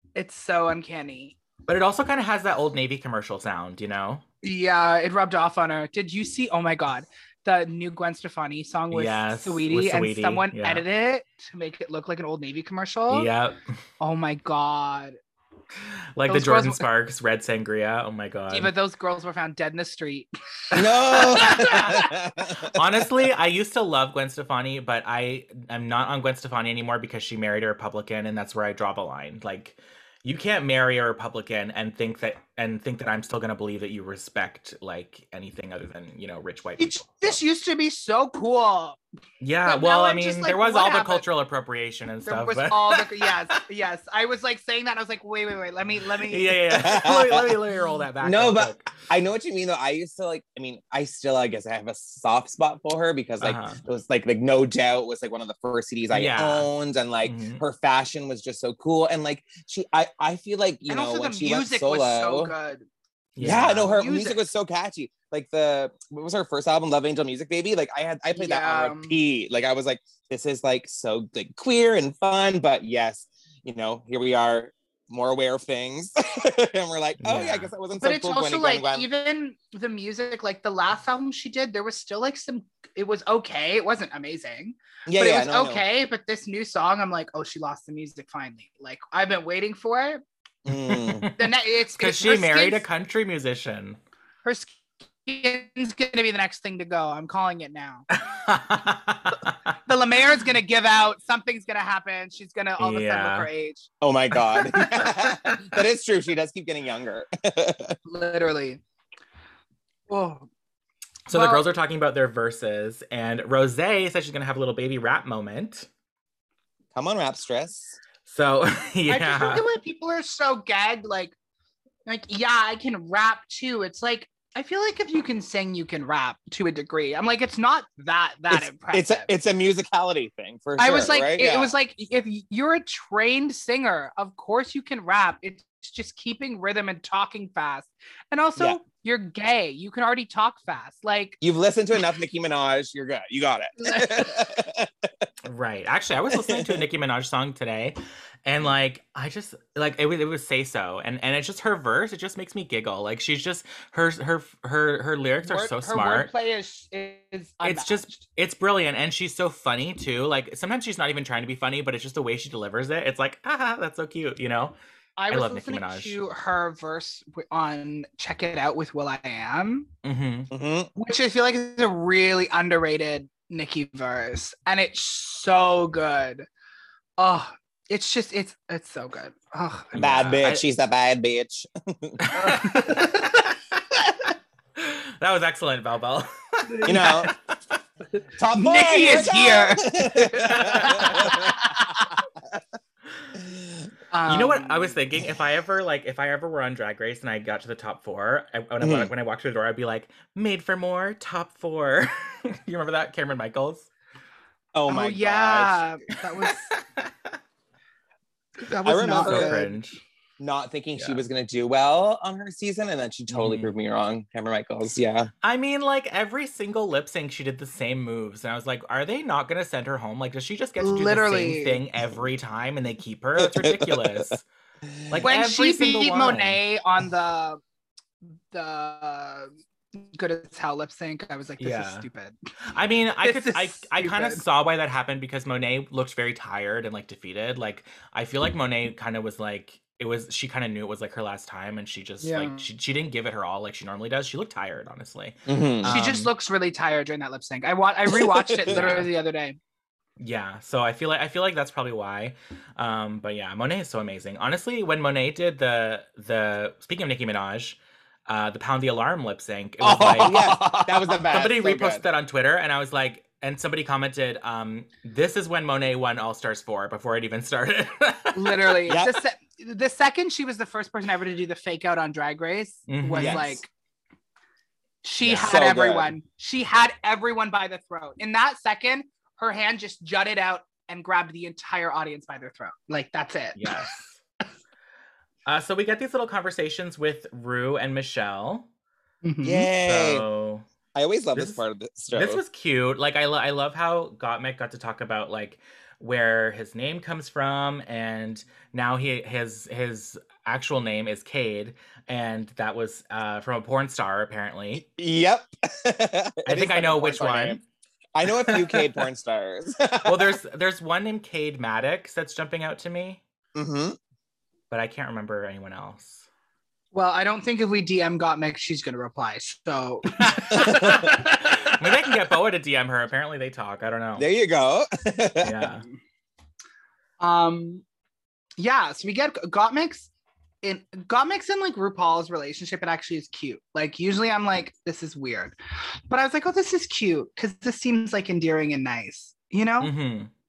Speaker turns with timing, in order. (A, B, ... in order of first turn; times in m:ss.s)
0:00.2-0:01.4 A
0:01.7-0:04.2 B
0:04.4-0:13.3 A
0:08.9-0:10.8 B
0:13.1-0:13.6 B
0:14.0-0:15.2 A
0:16.2-0:18.7 B
0:16.3-0:16.8 A
0:18.5-0:22.1 A
0:20.7-0:22.8 C
0:22.7-0:37.0 B
0:36.8-0:39.0 A
0:39.4-0:43.3 B
0:39.6-0:41.2 A
0:42.2-0:46.6 A
0:46.2-0:49.0 B
0:46.7-0:47.6 C
0:48.2-1:02.5 C
0:53.4-0:53.8 B
0:56.1-0:56.7 B
0:57.2-0:57.6 B
1:00.9-1:02.8 A
1:03.4-1:03.9 B
1:03.4-1:19.1 C
1:03.8-1:04.4 A
1:08.3-1:09.2 A
1:17.2-1:17.7 B
1:18.0-1:30.2 A
1:25.1-1:25.8 C
1:30.6-1:31.3 C
1:30.8-1:34.0 B
1:31.4-1:32.8 A
1:34.4-1:38.0 A
1:38.1-1:39.6 B
1:39.9-1:43.9 A
1:42.8-1:43.5 B
1:44.0-1:48.0 C
1:44.5-1:45.3 A
1:48.0-1:48.8 A
1:50.1-1:50.5 A
1:51.3-1:55.9 B
1:51.3-1:51.6 A
1:56.9-1:58.0 C
1:58.2-1:59.6 B
1:59.1-2:01.3 A
2:02.0-2:09.3 A
2:08.5-2:11.7 C
2:10.8-2:21.4 A
2:21.4-2:25.3 C
2:23.8-2:24.4 A
2:25.4-2:36.3 B
2:26.3-2:26.8 C
2:35.4-2:38.2 A
2:37.6-2:44.8 B
2:45.2-2:49.9 A
2:45.3-2:46.2 B
2:50.0-2:50.5 B
2:50.5-2:50.9 C
2:51.0-2:56.5 A
2:57.2-3:00.0 A
2:59.9-3:00.6 B
3:00.0-3:02.3 C
3:02.2-3:04.1 B
3:02.3-3:03.5 A
3:04.8-3:07.4 B
3:06.6-3:07.3 A
3:06.8-3:07.3 C
3:08.4-3:11.5 C
3:08.5-3:12.2 A
3:10.7-3:11.4 B
3:14.1-3:15.0 A
3:14.2-3:23.9 B
3:18.8-3:19.1 C
3:24.7-3:25.9 C
3:24.9-3:26.7 A
3:26.4-3:27.1 B
3:28.6-3:29.8 A
3:28.8-3:29.6 C
3:29.2-3:30.0 B
3:30.4-3:35.3 C
3:31.0-3:31.2 B
3:33.3-3:33.7 B
3:35.4-3:44.4 B
3:40.8-3:41.8 A
3:43.4-3:44.3 C
3:44.8-3:45.2 C
3:45.1-3:46.6 B
3:45.2-3:47.6 A
3:48.5-3:52.3 A
3:51.6-3:52.0 B
3:52.7-4:06.3 B
3:53.2-3:54.4 A
4:02.2-4:02.7 A
4:05.5-4:06.0 C
4:05.9-4:09.6 A
4:08.1-4:09.0 C
4:08.7-4:09.1 B
4:10.2-4:20.6 B
4:19.8-4:22.0 C
4:20.1-4:20.9 A
4:21.3-4:28.8 B
4:28.3-4:33.7 A
4:28.9-4:29.2 C
4:32.9-4:33.6 B
4:33.2-4:33.5 C
4:35.0-4:43.7 A
4:35.2-4:35.6 B
4:35.4-4:36.1 C
4:43.6-4:44.2 B
4:45.4-4:48.7 B
4:49.2-4:49.7 A
4:49.4-4:50.2 C
4:49.8-4:50.7 B
4:50.9-4:52.4 C
4:51.3-5:04.8 B
5:04.7-5:07.6 C
5:06.4-5:07.6 B
5:08.1-5:10.4 C
5:08.4-5:08.8 B
5:10.0-5:13.2 B
5:13.5-5:14.0 C
5:14.7-5:16.2 B
5:16.9-5:21.4 A
5:20.5-5:21.2 C
5:20.6-5:24.3 B
5:24.2-5:25.7 C
5:25.4-5:25.8 B
5:27.2-5:27.8 A
5:28.6-5:30.1 A
5:30.6-5:39.9 A
5:39.8-5:40.3 B